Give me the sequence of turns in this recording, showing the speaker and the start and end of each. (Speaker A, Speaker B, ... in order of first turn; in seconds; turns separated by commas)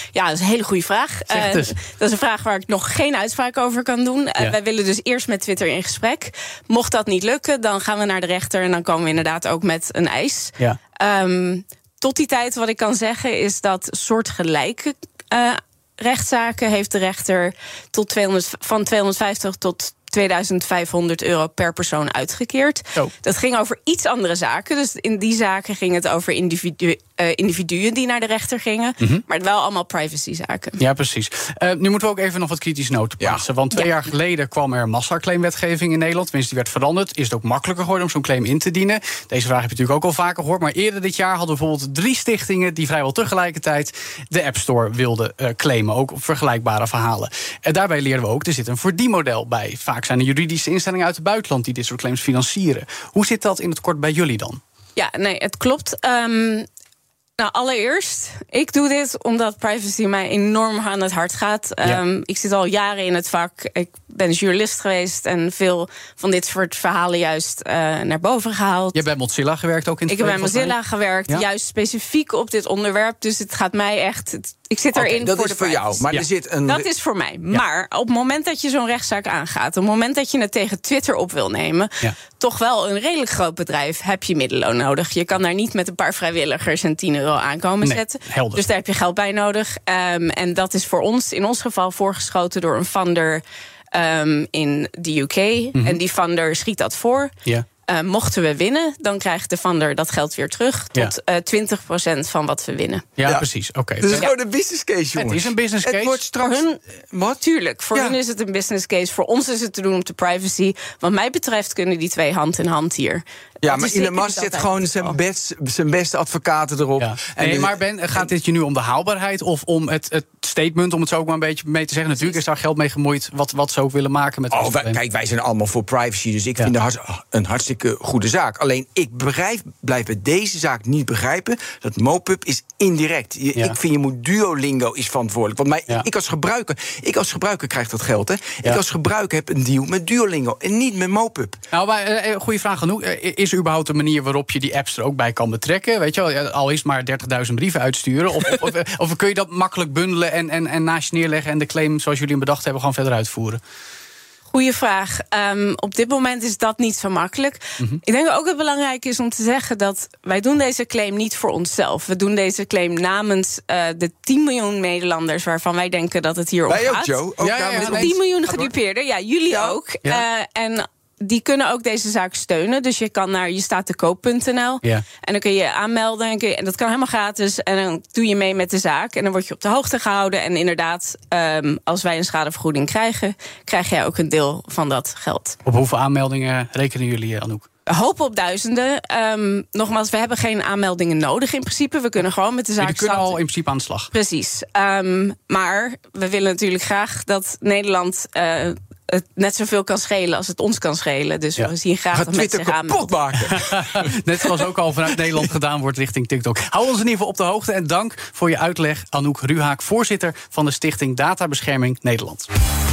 Speaker A: 0.1-30.8, Speaker B: 1.3-1.7, Speaker B: 30.8-54.6, Speaker A: 55.0-56.7, Speaker A: 57.4-69.0, Speaker B: 68.9-70.8, Speaker A: 70.1-76.0, Speaker C: 74.9-76.9, Speaker A: 76.7-93.4, Speaker B: 87.8-88.6, Speaker A: 93.9-97.3, Speaker A: 97.8-103.2, Speaker B: 103.2-104.3, Speaker C: 104.0-107.4, Speaker B: 105.2-106.2, Speaker A: 106.4-106.8, Speaker A: 107.4-115.2, Speaker C: 113.6-118.3, Speaker B: 117.0-125.0, Speaker C: 124.5-141.6, Speaker B: 141.7-153.6, Speaker A: 154.5-167.2, Speaker C: 166.7-168.7, Speaker B: 167.4-168.1, Speaker A: 167.8-185.6, Speaker C: 169.5-169.8, Speaker B: 185.7-187.6, Speaker A: 187.9-193.4, Speaker B: 192.8-194.1, Speaker A: 194.1-203.1, Speaker C: 202.1-204.1, Speaker B: 203.5-212.5